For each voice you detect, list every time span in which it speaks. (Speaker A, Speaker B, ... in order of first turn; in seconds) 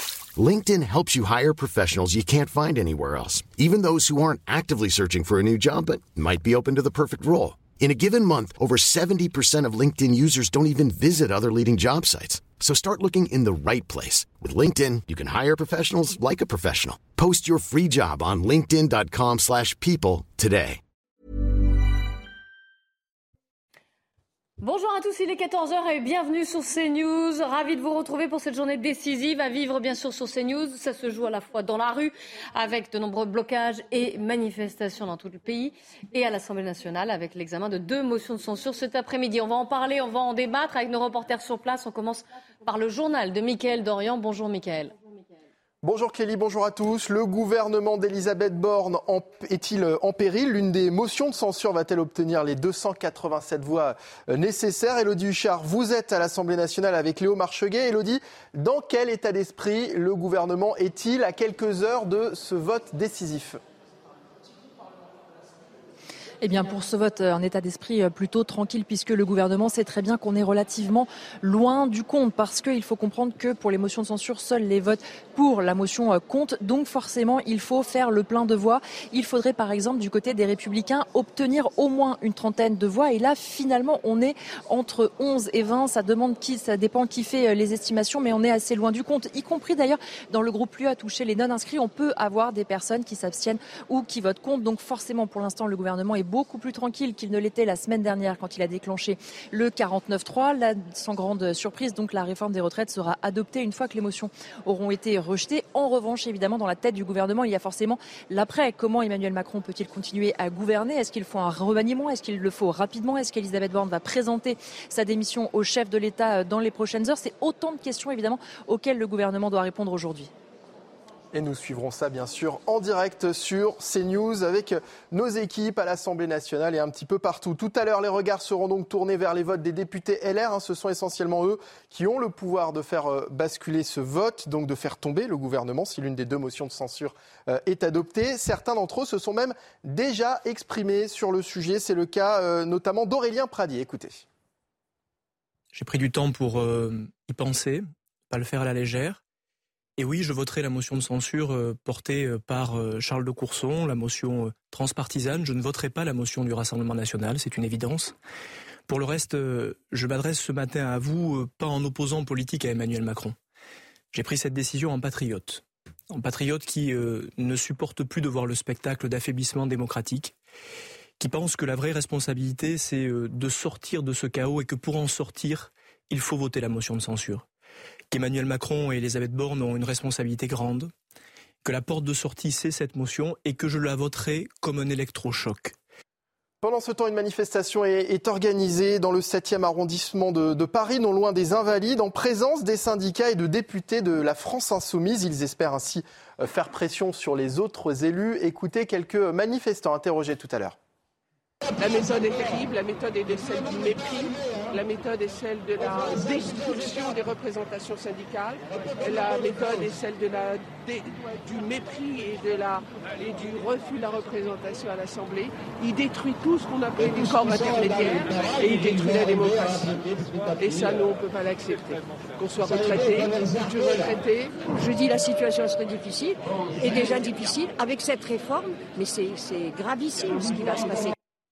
Speaker A: 0.4-20.8
Speaker B: 24.6-44.9
Speaker C: 45.8-63.6, 121.3-144.2, 186.6-200.7
Speaker D: 66.4-120.3
Speaker E: 145.7-149.2, 150.0-158.1, 158.9-163.3, 164.1-170.3, 171.2-177.4, 178.1-180.9, 181.6-185.7
Speaker F: 201.8-224.7
Speaker G: 224.6-231.1